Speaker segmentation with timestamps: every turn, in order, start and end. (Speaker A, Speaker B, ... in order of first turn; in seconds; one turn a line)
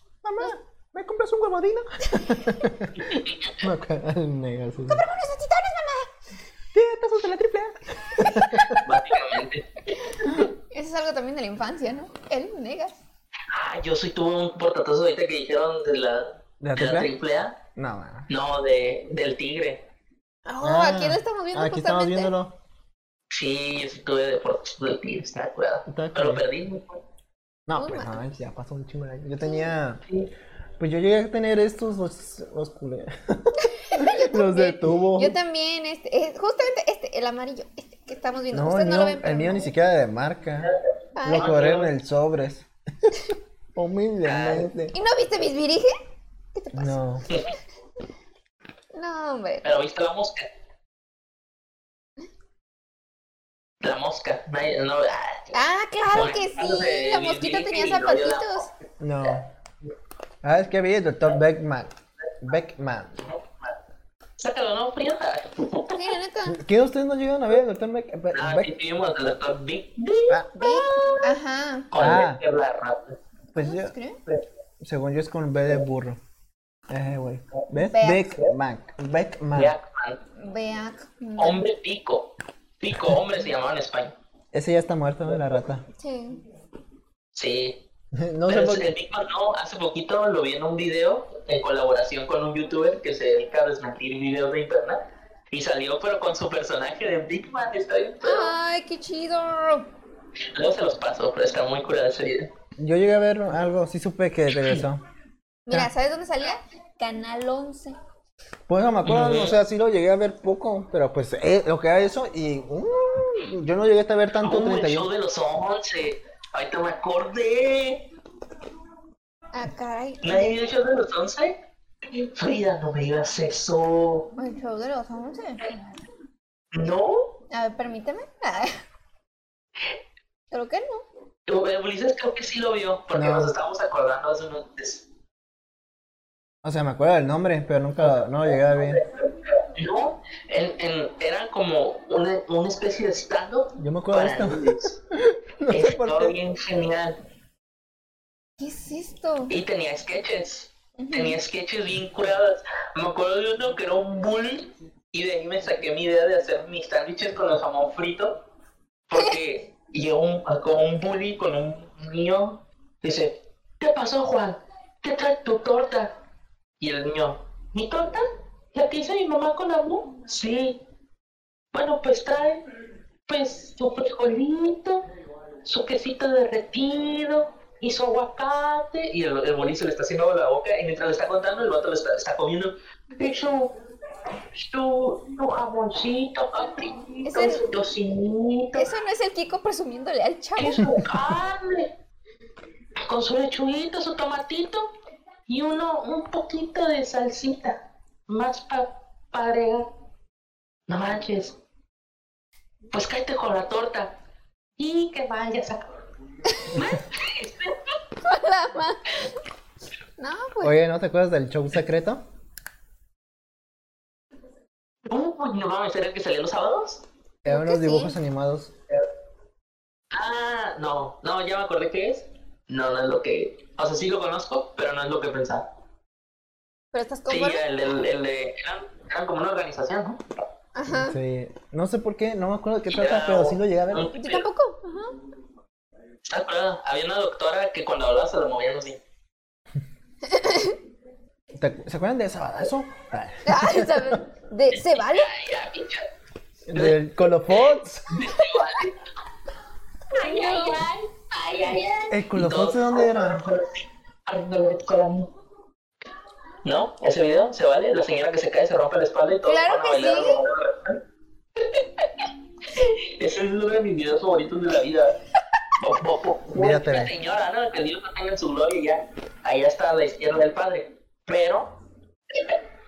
Speaker A: 0.2-5.1
Speaker B: 3.0-3.6
Speaker C: 4.9-6.1
Speaker A: 6.7-8.8
Speaker C: 8.2-8.8
Speaker B: 8.8-10.1
Speaker C: 10.2-13.0
Speaker B: 13.5-17.6
Speaker A: 16.6-17.1
Speaker A: 17.7-18.3
Speaker B: 18.3-19.8
Speaker C: 20.4-22.3
Speaker A: 20.6-22.5
Speaker B: 23.3-27.0
Speaker A: 25.9-26.4
Speaker A: 27.7-30.0
Speaker C: 27.7-28.2
Speaker C: 29.4-29.7
Speaker A: 30.8-35.4
Speaker C: 33.6-39.7
Speaker A: 38.5-40.7
Speaker C: 41.1-41.5
Speaker A: 41.2-43.1
Speaker B: 41.3-41.9
Speaker A: 43.7-44.9
Speaker B: 44.2-44.7
Speaker C: 44.9-45.9
Speaker C: 46.5-47.4
Speaker A: 46.7-47.2
Speaker C: 48.9-49.7
Speaker B: 49.6-50.5
Speaker B: 53.8-55.5
Speaker C: 55.5-58.7
Speaker B: 56.1-58.7
Speaker A: 59.0-59.5
Speaker A: 60.4-63.2
Speaker B: 63.2-63.7
Speaker B: 64.4-66.0
Speaker C: 65.9-66.6
Speaker A: 66.5-68.7
Speaker B: 68.3-71.4
Speaker C: 70.5-71.9
Speaker B: 71.9-73.2
Speaker A: 71.9-72.4
Speaker A: 73.5-73.9
Speaker C: 73.5-74.2
Speaker A: 74.8-76.2
Speaker A: 76.9-79.7
Speaker C: 77.8-78.2
Speaker B: 79.5-80.2
Speaker C: 80.4-81.6
Speaker B: 81.4-84.1
Speaker A: 84.5-85.8
Speaker C: 86.0-86.4
Speaker B: 87.3-87.8
Speaker A: 88.1-88.9
Speaker B: 88.5-98.5
Speaker C: 98.2-99.8
Speaker B: 100.5-102.5
Speaker A: 102.8-105.0
Speaker C: 105.7-108.0
Speaker A: 108.7-115.1
Speaker B: 109.0-109.5
Speaker B: 114.4-118.0
Speaker C: 119.5-120.5
Speaker B: 120.2-121.6
Speaker B: 122.1-124.3
Speaker C: 124.3-125.8
Speaker B: 126.7-127.3
Speaker C: 127.5-128.7
Speaker C: 130.5-131.0
Speaker B: 131.5-135.0
Speaker A: 133.1-133.6
Speaker A: 136.6-139.0
Speaker B: 138.0-144.9
Speaker A: 143.8-146.3
Speaker B: 145.7-147.2
Speaker C: 148.6-149.5
Speaker B: 149.5-158.4
Speaker C: 151.0-151.4
Speaker B: 159.1-166.1
Speaker B: 166.8-170.8
Speaker B: 171.7-172.6
Speaker B: 173.3-175.0
Speaker B: 175.6-183.7
Speaker B: 184.5-188.9
Speaker C: 187.2-187.7
Speaker C: 188.7-190.9
Speaker B: 190.6-191.9
Speaker B: 193.1-194.9
Speaker B: 195.5-199.9
Speaker B: 200.9-201.6
Speaker B: 202.9-204.1
Speaker B: 204.8-205.9
Speaker C: 206.5-207.0
Speaker B: 206.7-207.9
Speaker C: 208.2-209.3
Speaker C: 210.2-210.8
Speaker A: 210.6-212.2
Speaker B: 215.1-217.0
Speaker A: 217.4-218.7
Speaker C: 217.4-218.2
Speaker B: 220.1-225.7
Speaker C: 226.9-227.6
Speaker B: 227.3-230.4
Speaker C: 230.7-231.2
Speaker A: 230.8-234.1
Speaker B: 232.9-234.4
Speaker C: 234.1-235.1
Speaker B: 236.2-239.0
Speaker C: 240.2-240.8
Speaker A: 241.5-244.2
Speaker C: 243.4-245.3
Speaker B: 244.7-246.1
Speaker A: 246.7-248.2
Speaker B: 246.7-249.0
Speaker B: 250.1-255.3
Speaker C: 250.2-250.8
Speaker A: 252.1-253.5
Speaker B: 256.6-261.0
Speaker C: 259.4-260.4
Speaker B: 262.7-265.1
Speaker B: 265.8-271.7
Speaker A: 266.5-267.1
Speaker B: 272.3-272.6